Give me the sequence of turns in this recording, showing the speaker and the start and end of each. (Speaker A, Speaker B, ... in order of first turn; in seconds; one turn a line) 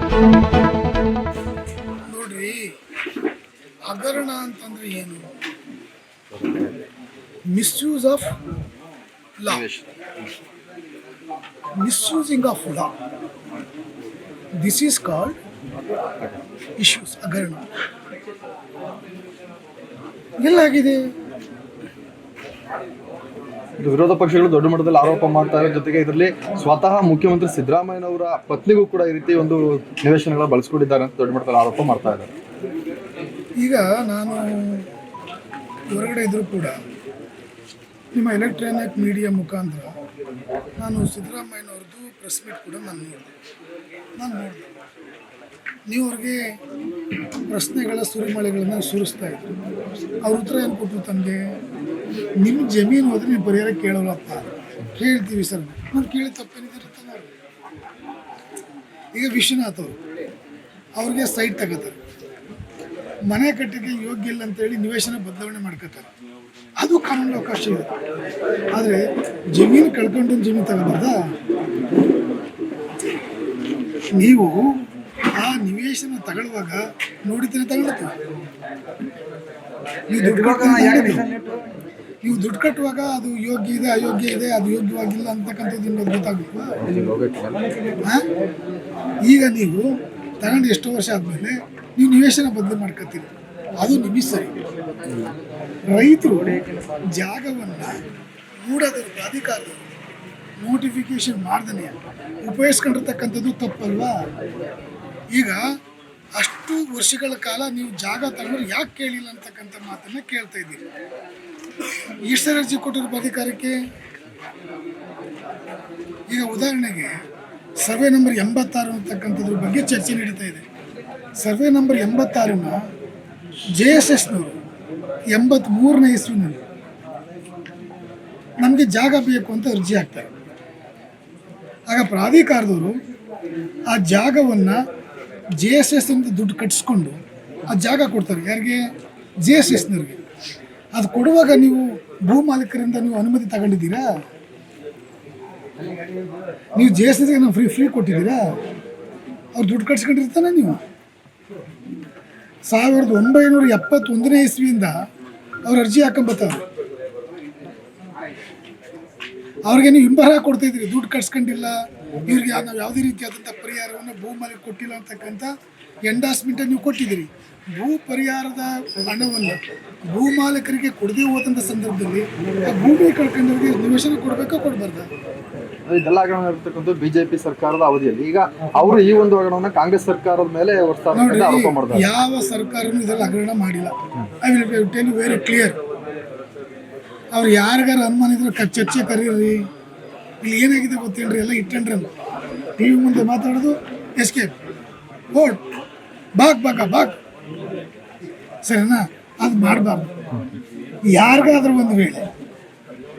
Speaker A: 2.1-2.7
Speaker A: 3.9-5.3
Speaker A: 7.5-8.3
Speaker A: 9.4-9.6
Speaker B: 9.5-9.9
Speaker A: 11.8-12.9
Speaker A: 14.6-15.3
Speaker A: 16.8-17.6
Speaker A: 20.4-21.0
Speaker B: 23.8-32.3
Speaker A: 33.6-34.9
Speaker A: 35.9-36.8
Speaker A: 38.1-40.0
Speaker A: 40.8-43.3
Speaker A: 44.2-44.7
Speaker A: 45.9-46.4
Speaker A: 47.5-49.5
Speaker A: 50.2-51.4
Speaker A: 52.4-57.3
Speaker A: 59.1-60.0
Speaker A: 61.0-61.9
Speaker A: 63.3-66.1
Speaker A: 66.8-68.0
Speaker A: 68.8-69.0
Speaker A: 69.5-71.1
Speaker A: 74.2-74.7
Speaker A: 75.4-78.1
Speaker A: 80.1-81.3
Speaker B: 80.2-81.6
Speaker A: 82.2-86.8
Speaker B: 86.8-87.8
Speaker A: 89.3-93.3
Speaker A: 93.8-94.5
Speaker A: 95.9-98.0
Speaker A: 98.7-99.8
Speaker A: 100.6-104.1
Speaker A: 105.3-105.6
Speaker A: 106.4-110.8
Speaker A: 112.2-113.8
Speaker A: 116.3-117.1
Speaker A: 117.8-120.7
Speaker A: 121.4-122.8
Speaker A: 123.8-124.6
Speaker A: 125.3-126.6
Speaker A: 128.6-130.3
Speaker A: 131.9-133.0
Speaker A: 133.9-134.8
Speaker A: 135.6-137.2
Speaker A: 137.7-138.8
Speaker A: 139.4-140.2
Speaker A: 140.9-144.1
Speaker A: 146.8-148.4
Speaker A: 149.6-150.8
Speaker A: 152.7-154.9
Speaker A: 155.7-156.6
Speaker A: 159.7-165.5
Speaker A: 166.1-175.1
Speaker B: 175.9-182.1
Speaker A: 181.1-185.8
Speaker A: 187.3-189.6
Speaker A: 190.4-192.1
Speaker A: 192.8-194.6
Speaker A: 195.3-195.7
Speaker A: 196.4-197.2
Speaker A: 198.7-200.1
Speaker A: 201.2-202.2